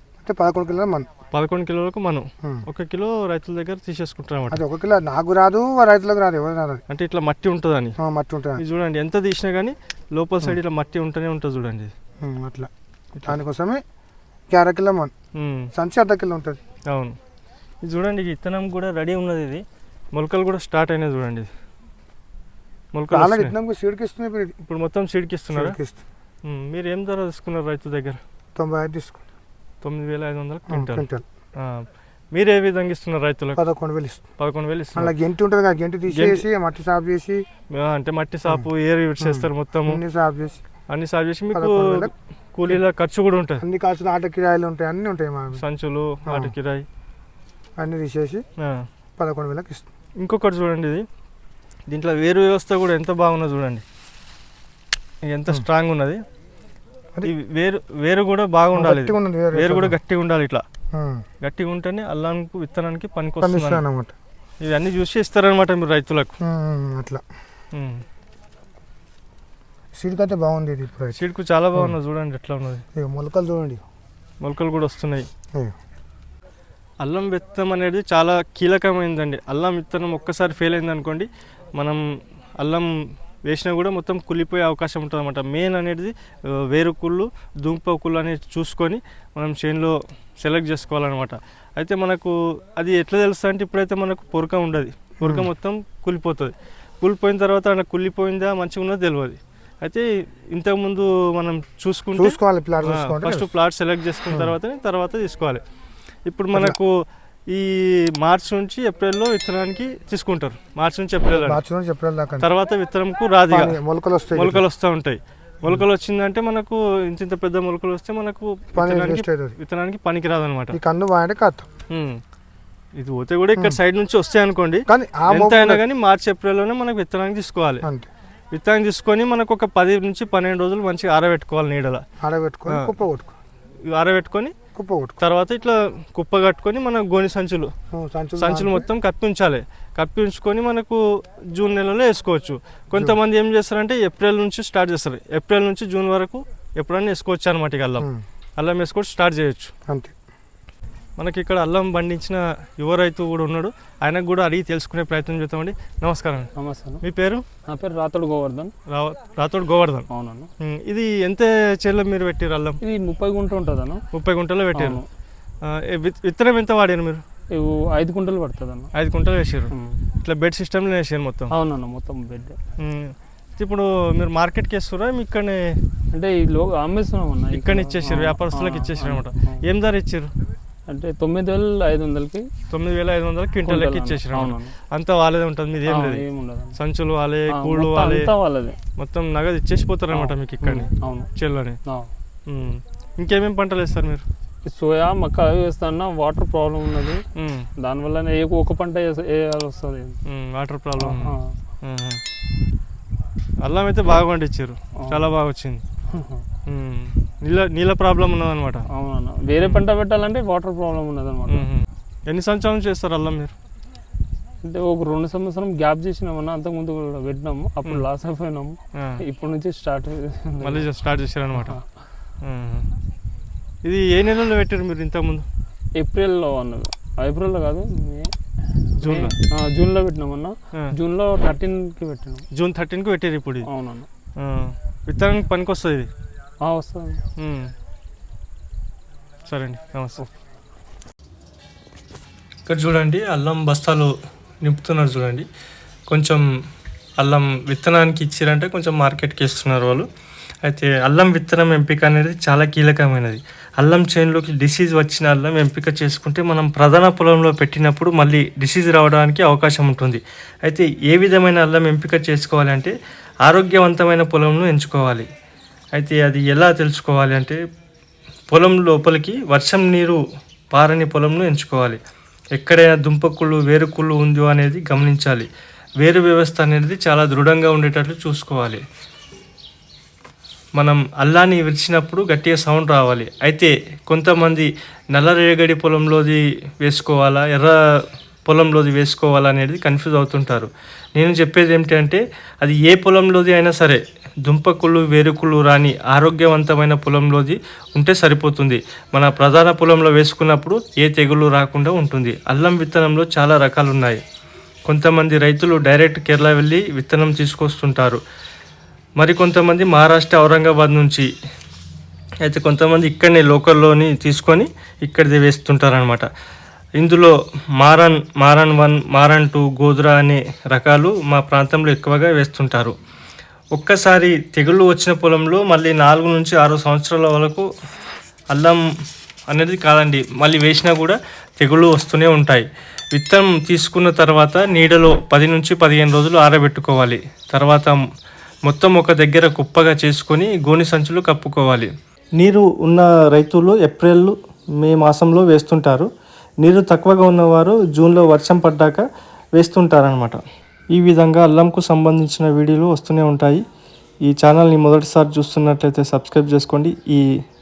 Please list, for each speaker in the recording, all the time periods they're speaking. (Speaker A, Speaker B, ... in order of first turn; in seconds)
Speaker A: 0.2-1.1, 4.5-6.8, 8.0-8.6, 12.2-13.8, 14.5-15.1, 15.8-16.6, 23.1-24.6, 25.5-26.0, 28.6-29.2, 30.7-31.2, 33.6-34.2, 35.0-37.4, 39.2-40.6, 41.5-42.1, 43.6-45.6, 46.3-46.5, 47.8-48.4, 49.2-49.9, 58.8-60.0, 60.9-61.2, 63.4-64.1, 66.4-67.2, 70.0-71.2, 73.0-73.8, 95.2-95.5, 102.2-103.5, 104.3-104.6, 111.3-112.5, 113.5-114.6, 118.8-119.6, 120.7-121.7, 124.9-125.8, 127.8-128.1, 132.2-133.3, 134.8-135.2, 137.9-138.9, 149.9-150.1
Speaker B: 1.3-4.6, 6.9-8.0, 8.6-11.9, 15.3-15.7, 16.9-17.2, 17.8-21.5, 22.9-23.5, 24.6-25.8, 26.4-28.2, 29.8-31.1, 31.6-33.6, 34.4-35.1, 36.1-36.4, 37.7-40.0, 40.9-43.6, 45.6-46.9, 48.6-48.9, 50.2-51.1, 51.9-53.8, 55.3-56.2, 57.2-60.6, 61.4-63.8, 64.6-66.4, 67.7-68.0, 71.1-72.8, 74.4-75.3, 77.0-82.0, 82.6-82.9, 83.5-105.6, 106.3-107.0, 107.5-111.6, 112.4-113.8, 114.3-120.8, 121.9-122.2, 123.0-127.8, 128.5-132.0, 133.9-134.5, 135.2-137.7, 138.4-141.0, 141.5-149.7, 151.2-156.5, 157.0-157.5, 158.9-160.1, 160.6-162.8, 164.1-165.0, 165.6-167.2, 168.9-171.5, 172.8-175.6, 177.5-180.3, 182.7-188.3, 189.0-191.8, 192.5-194.2, 197.4-197.7, 200.3-202.2, 203.6-205.8, 206.7-208.9, 209.6-209.8, 211.5-213.5, 219.0-219.2, 220.6-221.8, 222.4-222.9, 223.8-225.5, 229.0-229.4, 232.5-233.7, 234.4-236.1, 237.4-237.7, 239.5-240.2, 242.7-245.5, 246.1-246.5, 247.2-250.1, 250.6-262.9, 263.5-265.3, 266.0-267.6, 268.5-270.2, 270.7-272.0, 272.6-275.5, 276.0-278.8, 280.8-287.8, 288.5-304.2, 304.9-308.2, 309.2-311.3, 312.4-316.3, 317.0-322.9, 323.8-327.7, 328.5-328.8, 329.5-338.0, 338.7-346.1, 346.6-350.4, 350.9-353.6, 354.3-357.3
Speaker C: 156.6-157.0, 157.7-158.7, 160.1-160.5, 162.8-164.0, 164.7-165.1, 167.5-168.9, 169.7-170.1, 171.5-172.6, 176.1-179.7, 180.9-182.5, 183.7-184.8, 185.9-186.8, 187.5-188.8, 190.1-191.3, 191.8-192.1, 194.7-197.2, 197.8-200.2, 201.0-201.6, 205.0-205.3, 206.1-206.5, 208.9-211.7, 214.6-220.9, 221.6-221.8, 226.0-228.3, 228.9-232.5, 233.7-234.1, 236.6-237.3